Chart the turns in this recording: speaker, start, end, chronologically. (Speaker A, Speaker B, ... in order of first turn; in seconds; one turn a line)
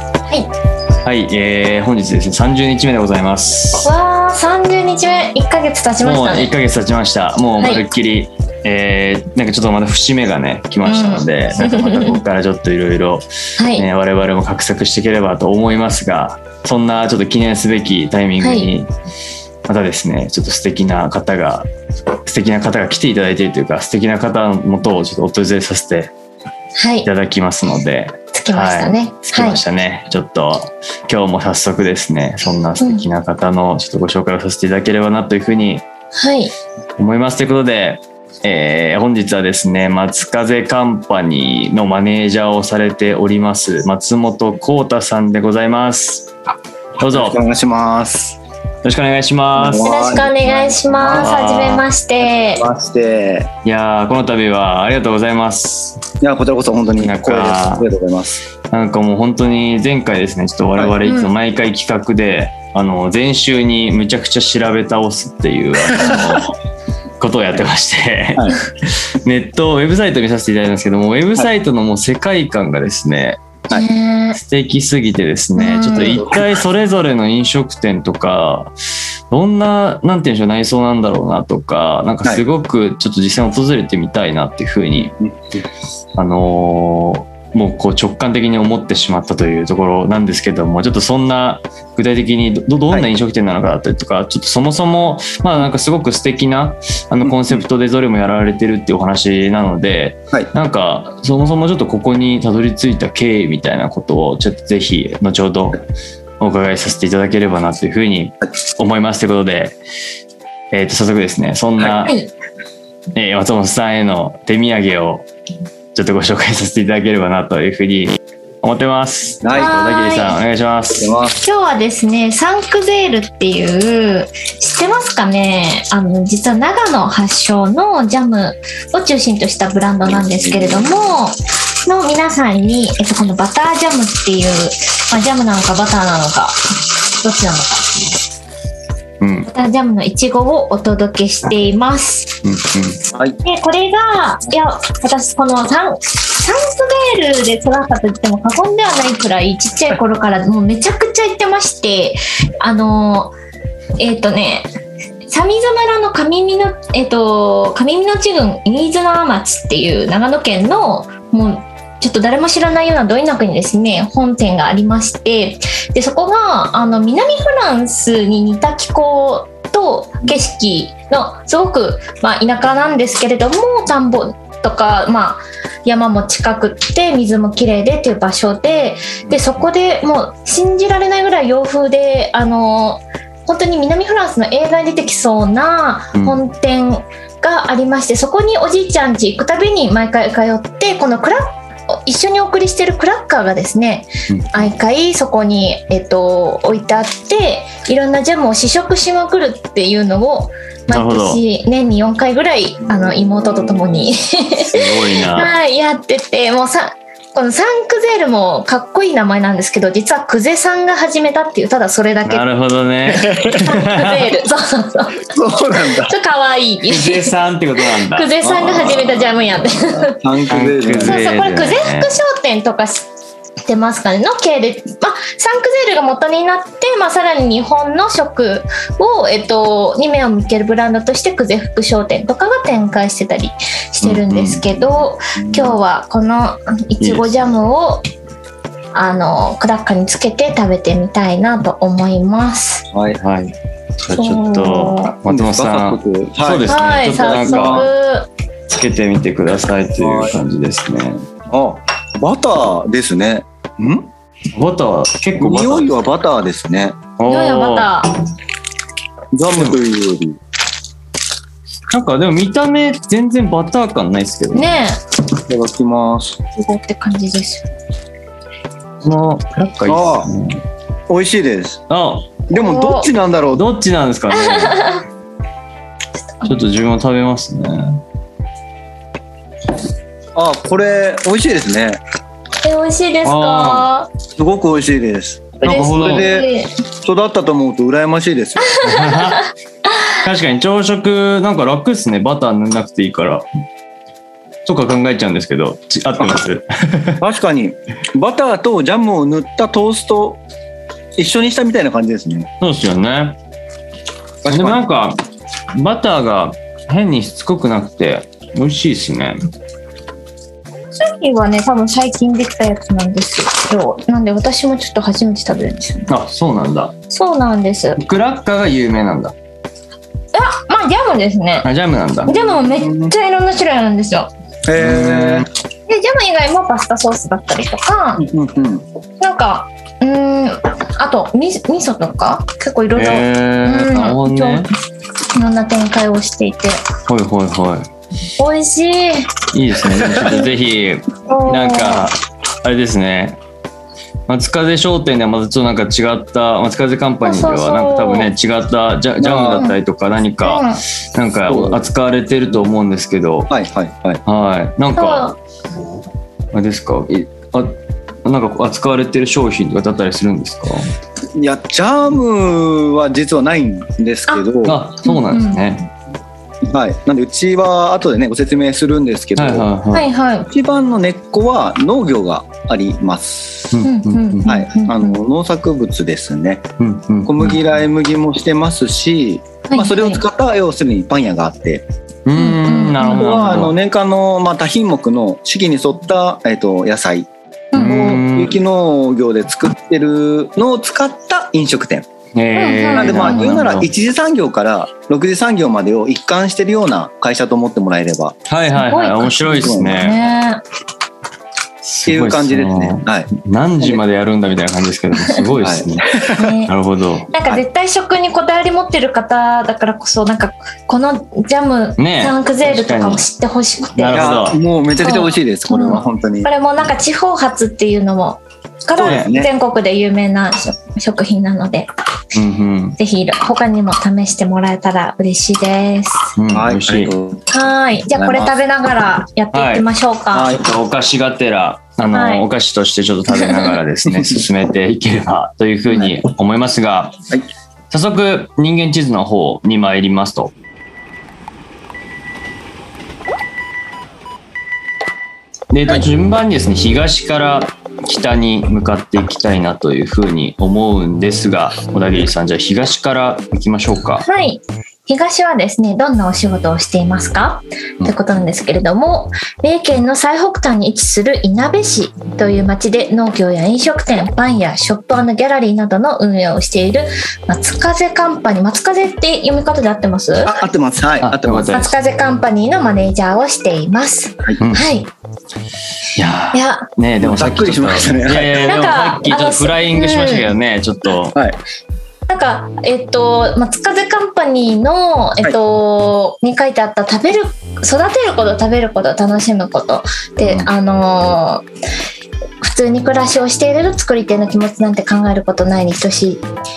Speaker A: 1.0-3.9
Speaker B: 3.8-6.5
Speaker A: 6.0-18.9
Speaker B: 10.9-12.2
Speaker B: 13.6-13.8
Speaker B: 18.4-18.7
Speaker A: 19.7-21.7
Speaker A: 22.2-26.1
Speaker B: 26.8-27.1
Speaker A: 27.1-35.8
Speaker B: 28.3-29.6
Speaker B: 32.8-33.1
Speaker B: 36.2-36.5
Speaker A: 37.0-46.3
Speaker A: 47.0-47.4
Speaker C: 47.1-48.4
Speaker A: 48.8-49.9
Speaker C: 49.5-51.4
Speaker B: 49.8-52.6
Speaker A: 51.1-51.8
Speaker C: 52.2-53.5
Speaker A: 53.6-56.0
Speaker C: 56.2-58.4
Speaker A: 57.0-57.9
Speaker A: 58.7-66.5
Speaker B: 61.0-61.3
Speaker C: 65.9-66.3
Speaker A: 67.2-73.6
Speaker C: 68.3-68.6
Speaker B: 73.7-74.4
Speaker A: 74.3-78.7
Speaker B: 75.6-76.3
Speaker C: 76.0-76.5
Speaker A: 79.3-85.2
Speaker C: 85.1-85.3
Speaker A: 86.2-105.8
Speaker C: 97.2-97.6
Speaker A: 106.4-109.8
Speaker A: 110.7-112.2
Speaker B: 112.0-112.3
Speaker A: 113.1-115.3
Speaker A: 115.9-121.2
Speaker C: 119.4-119.7
Speaker B: 119.5-120.4
Speaker C: 120.9-121.4
Speaker B: 121.4-138.2
Speaker C: 130.1-130.9
Speaker A: 139.2-139.5
Speaker B: 139.5-142.4
Speaker A: 142.4-143.0
Speaker C: 143.1-143.4
Speaker B: 143.4-153.3
Speaker B: 154.0-154.7
Speaker B: 155.3-212.4
Speaker A: 194.3-194.7
Speaker A: 200.9-201.4
Speaker A: 204.7-205.5
Speaker A: 212.2-214.3
Speaker C: 213.1-213.7
Speaker B: 213.6-215.3
Speaker C: 215.3-216.1
Speaker B: 216.0-220.2
Speaker A: 216.8-218.3
Speaker C: 218.4-221.2
Speaker A: 220.5-222.2
Speaker B: 221.0-223.1
Speaker B: 223.7-238.0
Speaker A: 234.0-234.7
Speaker C: 235.4-235.8
Speaker A: 237.0-237.5
Speaker B: 238.9-242.9
Speaker C: 242.9-243.2
Speaker A: 243.2-247.9
Speaker B: 244.1-245.2
Speaker C: 245.2-247.9
Speaker B: 246.7-248.3
Speaker A: 248.7-251.2
Speaker C: 249.9-250.4
Speaker C: 251.5-254.1
Speaker A: 254.5-255.9
Speaker C: 255.4-257.0
Speaker A: 257.2-257.9
Speaker B: 257.2-258.1
Speaker C: 259.3-260.4
Speaker A: 259.5-259.8
Speaker A: 261.9-264.8
Speaker B: 264.5-265.0
Speaker C: 265.5-266.4
Speaker B: 266.6-267.7
Speaker A: 269.0-270.6
Speaker C: 269.9-270.3
Speaker C: 271.1-271.8
Speaker A: 271.9-272.4
Speaker C: 272.5-273.6
Speaker B: 272.6-273.1
Speaker A: 273.6-274.8
Speaker B: 274.3-275.0
Speaker A: 276.4-278.0
Speaker C: 280.4-282.0
Speaker B: 282.6-284.1
Speaker A: 283.2-283.9
Speaker C: 284.3-286.5
Speaker B: 285.6-286.7
Speaker A: 285.6-286.3
Speaker C: 287.0-288.8
Speaker B: 288.7-289.5
Speaker A: 288.8-289.4
Speaker A: 290.1-293.4
Speaker A: 294.7-297.2
Speaker C: 297.2-300.4
Speaker C: 301.2-302.5
Speaker A: 302.6-303.4
Speaker C: 304.4-304.8
Speaker A: 304.5-305.2
Speaker A: 305.8-309.4
Speaker B: 310.9-316.1
Speaker A: 316.1-316.9
Speaker B: 317.1-318.0
Speaker A: 318.0-319.3
Speaker B: 320.3-321.7
Speaker A: 321.6-322.3
Speaker C: 322.3-323.1
Speaker B: 322.3-324.3
Speaker C: 324.7-325.5
Speaker A: 324.8-325.5
Speaker B: 325.9-328.3
Speaker C: 328.2-328.9
Speaker B: 329.2-334.7
Speaker A: 332.9-334.7
Speaker B: 335.4-336.8
Speaker A: 337.1-337.9
Speaker B: 338.4-339.3
Speaker A: 339.5-343.4
Speaker C: 339.9-340.4
Speaker B: 341.3-342.1
Speaker A: 344.3-353.5
Speaker B: 347.2-348.3
Speaker C: 349.2-349.7
Speaker B: 350.4-350.8
Speaker C: 351.5-351.8
Speaker C: 353.5-354.2
Speaker A: 354.3-355.4
Speaker B: 355.0-355.4
Speaker A: 356.5-360.9
Speaker C: 361.4-364.8
Speaker A: 364.6-365.9
Speaker B: 365.0-365.6
Speaker C: 366.6-369.7
Speaker A: 369.4-370.1
Speaker B: 369.9-370.5
Speaker C: 370.5-373.8
Speaker A: 373.7-374.6
Speaker B: 373.8-375.2
Speaker C: 374.6-376.7
Speaker A: 376.8-377.5
Speaker C: 377.3-381.9
Speaker B: 379.7-380.2
Speaker A: 382.3-383.7
Speaker B: 382.4-383.3
Speaker C: 383.0-392.1
Speaker B: 387.7-388.0
Speaker A: 387.8-388.6
Speaker A: 392.4-393.9
Speaker B: 392.6-393.6
Speaker C: 392.9-398.4
Speaker A: 398.5-400.2
Speaker B: 398.8-400.6
Speaker C: 399.4-400.1
Speaker A: 401.8-406.1
Speaker C: 402.1-404.0
Speaker C: 405.6-406.5
Speaker B: 406.3-406.7
Speaker A: 406.7-407.3
Speaker B: 407.3-414.2
Speaker A: 412.0-413.2
Speaker A: 413.9-414.6
Speaker C: 414.1-416.5
Speaker B: 415.0-421.9
Speaker C: 418.9-419.5
Speaker A: 419.0-419.3
Speaker A: 422.3-423.0
Speaker B: 423.0-426.3
Speaker A: 426.4-427.1
Speaker C: 426.5-427.5
Speaker B: 427.5-430.5
Speaker C: 428.1-428.5
Speaker A: 429.5-429.9
Speaker C: 430.3-430.7
Speaker A: 430.4-437.2
Speaker B: 432.1-432.4
Speaker B: 433.3-433.8
Speaker A: 437.9-440.5
Speaker A: 445.7-454.3
Speaker B: 454.2-470.6
Speaker C: 470.4-471.8
Speaker A: 471.2-471.9
Speaker B: 471.7-475.1
Speaker A: 474.6-474.9
Speaker A: 476.2-481.4
Speaker B: 476.5-476.9
Speaker C: 477.2-478.7
Speaker B: 478.7-480.5
Speaker C: 481.4-481.6
Speaker B: 482.3-491.6
Speaker B: 492.6-496.5